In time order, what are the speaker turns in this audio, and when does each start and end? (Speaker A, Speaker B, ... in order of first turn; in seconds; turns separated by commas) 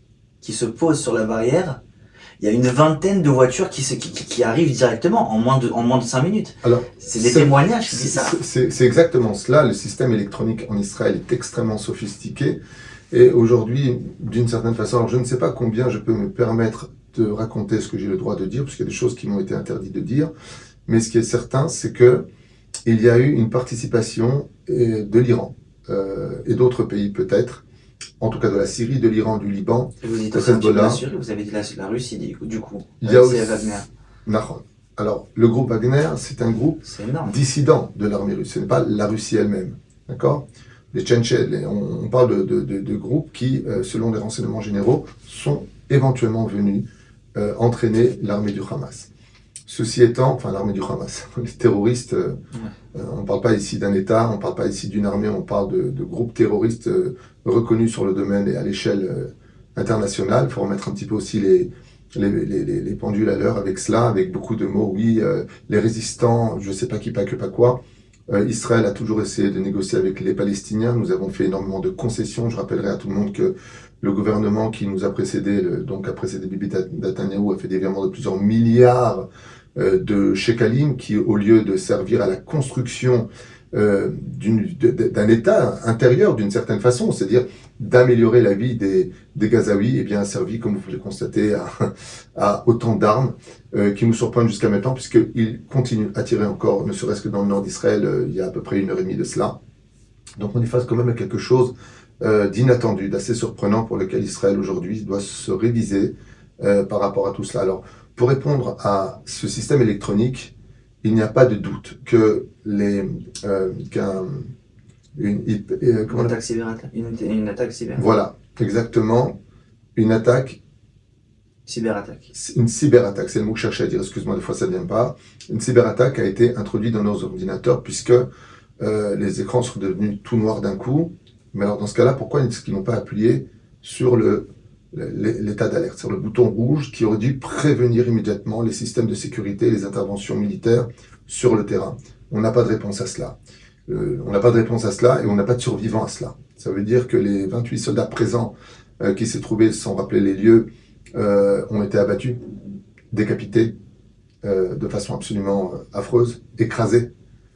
Speaker A: 0.4-1.8, Speaker A: 2.4-8.4, Speaker B: 6.6-12.6, Speaker B: 13.1-20.3, Speaker B: 20.9-22.3, Speaker B: 22.9-27.6, Speaker B: 28.2-31.0, Speaker A: 30.0-33.9, Speaker B: 33.0-49.1, Speaker A: 36.9-37.4, Speaker B: 49.7-52.4, Speaker B: 52.9-99.6, Speaker B: 100.4-114.5, Speaker B: 115.2-116.3, Speaker A: 116.1-118.0, Speaker B: 118.0-119.4, Speaker B: 120.0-120.6, Speaker A: 121.7-122.3, Speaker B: 122.3-128.3, Speaker B: 128.8-143.4, Speaker B: 143.9-152.4, Speaker B: 153.1-153.7, Speaker B: 154.4-157.1